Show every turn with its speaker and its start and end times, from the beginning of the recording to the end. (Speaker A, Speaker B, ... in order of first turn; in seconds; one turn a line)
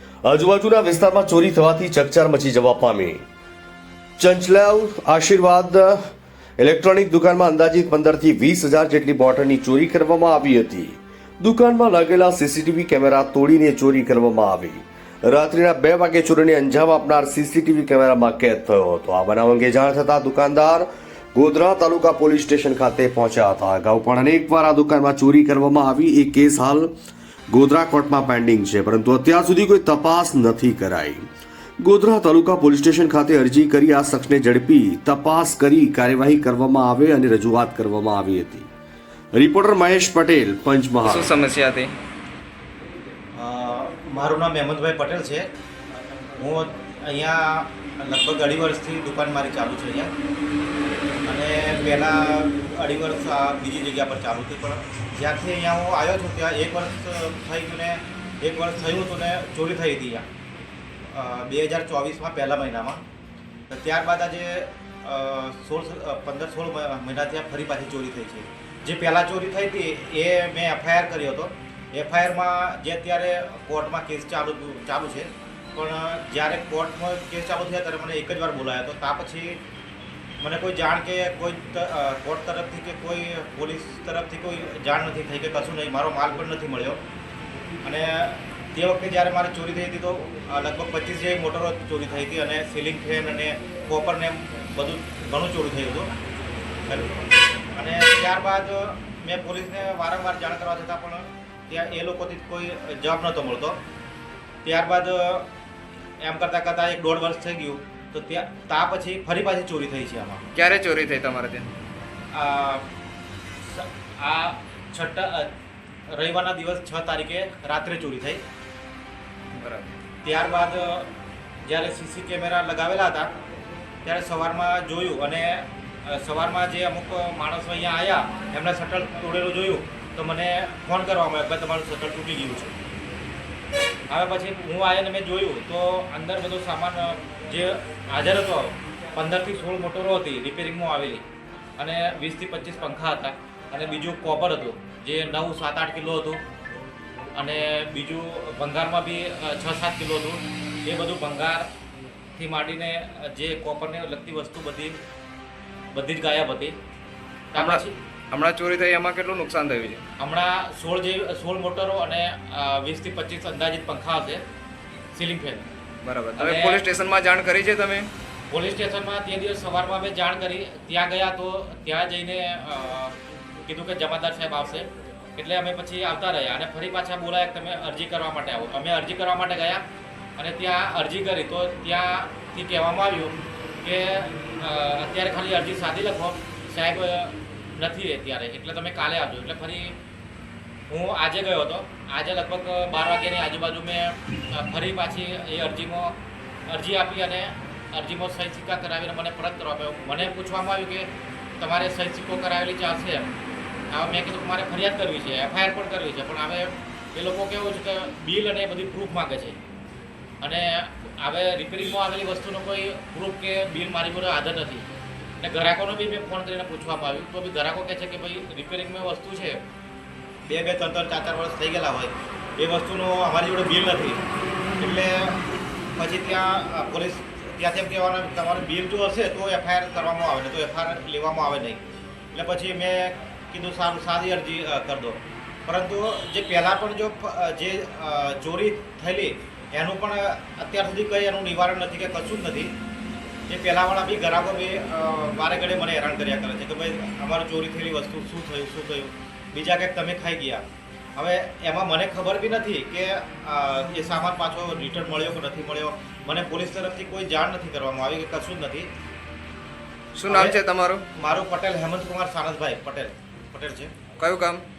Speaker A: 0.2-3.2
Speaker A: 4.2-26.9
Speaker A: 27.5-31.2
Speaker A: 31.8-38.7
Speaker A: 39.3-41.3
Speaker B: 41.0-41.9
Speaker C: 43.3-45.5
Speaker C: 46.4-50.1
Speaker C: 51.2-60.3
Speaker C: 61.1-63.0
Speaker C: 63.7-79.6
Speaker C: 80.4-87.0
Speaker C: 87.8-96.1
Speaker C: 96.9-97.1
Speaker C: 97.7-103.8
Speaker C: 104.6-105.5
Speaker C: 106.2-110.4
Speaker B: 110.5-111.7
Speaker C: 112.3-112.9
Speaker C: 113.6-115.5
Speaker C: 116.1-118.4
Speaker B: 119.5-119.9
Speaker C: 120.2-121.1
Speaker C: 121.6-123.3
Speaker C: 124.0-132.7
Speaker C: 134.1-141.2
Speaker C: 141.8-146.4
Speaker C: 147.3-151.7
Speaker C: 152.4-155.0
Speaker C: 155.9-156.8
Speaker C: 157.5-157.9
Speaker B: 157.6-160.0
Speaker C: 160.2-164.4
Speaker C: 165.1-165.7
Speaker B: 166.0-168.1
Speaker C: 166.4-166.8
Speaker C: 168.5-179.8
Speaker C: 180.4-189.9
Speaker C: 190.9-196.2
Speaker C: 196.7-203.3
Speaker C: 203.9-209.6
Speaker C: 210.4-214.9
Speaker C: 215.4-219.6
Speaker C: 220.5-224.2
Speaker C: 224.8-225.4
Speaker C: 225.9-231.8
Speaker C: 232.3-242.8
Speaker C: 243.5-250.6
Speaker C: 251.2-258.9
Speaker B: 260.1-261.0
Speaker C: 260.3-260.6
Speaker C: 261.1-263.9
Speaker B: 264.2-264.6